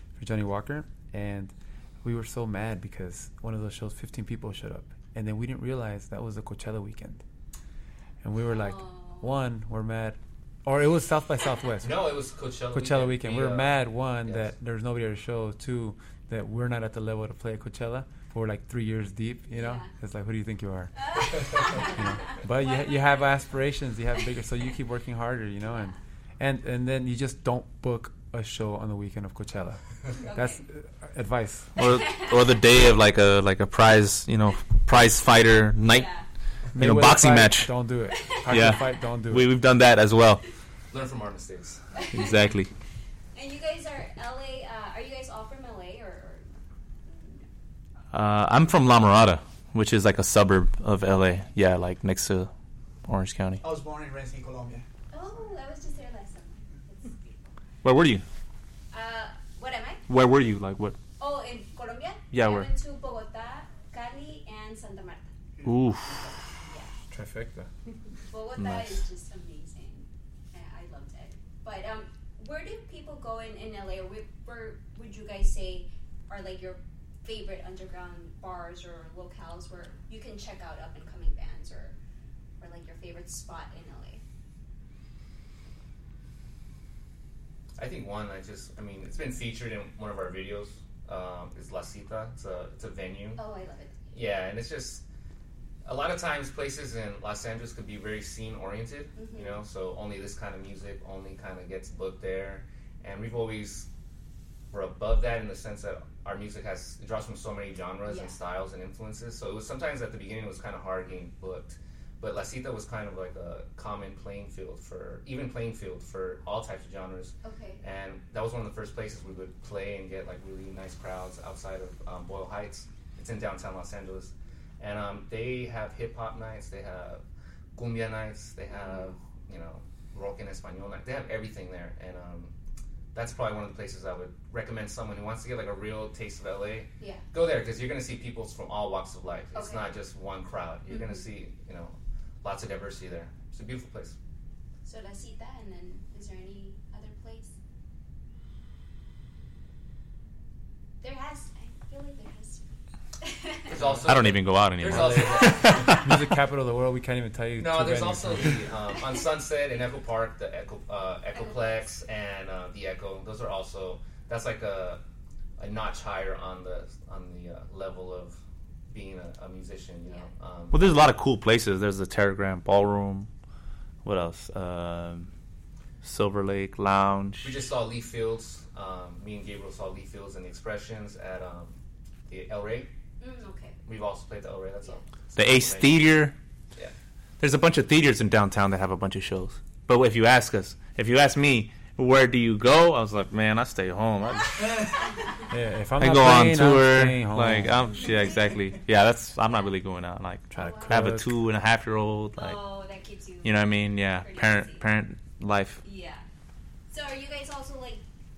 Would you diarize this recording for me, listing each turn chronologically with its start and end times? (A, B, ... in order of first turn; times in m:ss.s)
0:00.2-0:07.2 A
0:08.2-0:12.0 A
0:08.4-0:09.4 B
0:11.8-0:14.5 C
0:12.7-0:32.0 A
0:19.5-0:19.9 B
0:21.0-0:23.4 B
0:25.7-0:26.0 B
0:30.2-0:30.6 B
0:31.8-0:36.1 D
0:31.9-0:32.3 B
0:35.9-0:36.2 B
0:36.7-0:39.5 A
0:36.8-0:37.7 D
0:38.5-0:40.4 D
0:40.9-0:42.0 C
0:41.9-0:42.5 B
0:42.1-0:42.7 D
0:43.3-0:46.4 B
0:47.0-0:47.4 B
0:48.1-0:52.5 D
0:53.0-0:53.6 D
0:53.6-0:54.8 E
0:55.1-0:57.4 B
0:57.8-0:58.2 D
0:58.9-1:00.0 B
1:00.1-1:01.0 D
1:01.2-1:05.3 B
1:02.3-1:02.7 D
1:05.6-1:06.4 E
1:05.6-1:06.3 D
1:06.6-1:06.9 B
1:07.1-1:07.7 A
1:08.2-1:22.0 B
1:08.6-1:09.0 D
1:22.6-1:24.2 B
1:27.8-1:33.4 C
1:33.4-1:34.1 B
1:34.1-1:35.0 C
1:35.8-1:43.9 C
1:39.2-1:39.6 B
1:44.7-2:07.2 C
1:48.1-1:48.4 B
1:57.4-1:57.8 B
2:07.7-2:12.5 C
2:08.7-2:09.1 B
2:13.1-2:24.2 C
2:17.0-2:17.2 B
2:19.5-2:19.9 B
2:20.9-2:21.2 B
2:24.8-2:27.6 B
2:31.0-2:33.7 B
2:33.7-2:36.0 C
2:34.0-2:36.1 D
2:34.8-2:38.7 A
2:35.4-2:35.8 B
2:37.6-2:45.0 C
2:41.3-2:41.9 B
2:45.6-2:50.8 C
2:50.7-2:53.3 D
2:54.0-2:55.3 D
2:56.0-2:57.6 D
2:57.4-3:01.8 C
3:02.3-3:02.9 C
3:03.2-3:03.8 B
3:03.8-3:06.0 C
3:05.4-3:06.4 D
3:07.4-3:15.0 D
3:15.0-3:15.4 B
3:15.5-3:18.1 A
3:16.0-3:22.6 D
3:18.0-3:18.3 B
3:20.5-3:21.3 A
3:20.6-3:21.0 B
3:22.4-3:24.9 B
3:23.4-3:25.8 D
3:25.8-3:26.2 B
3:26.9-3:28.0 B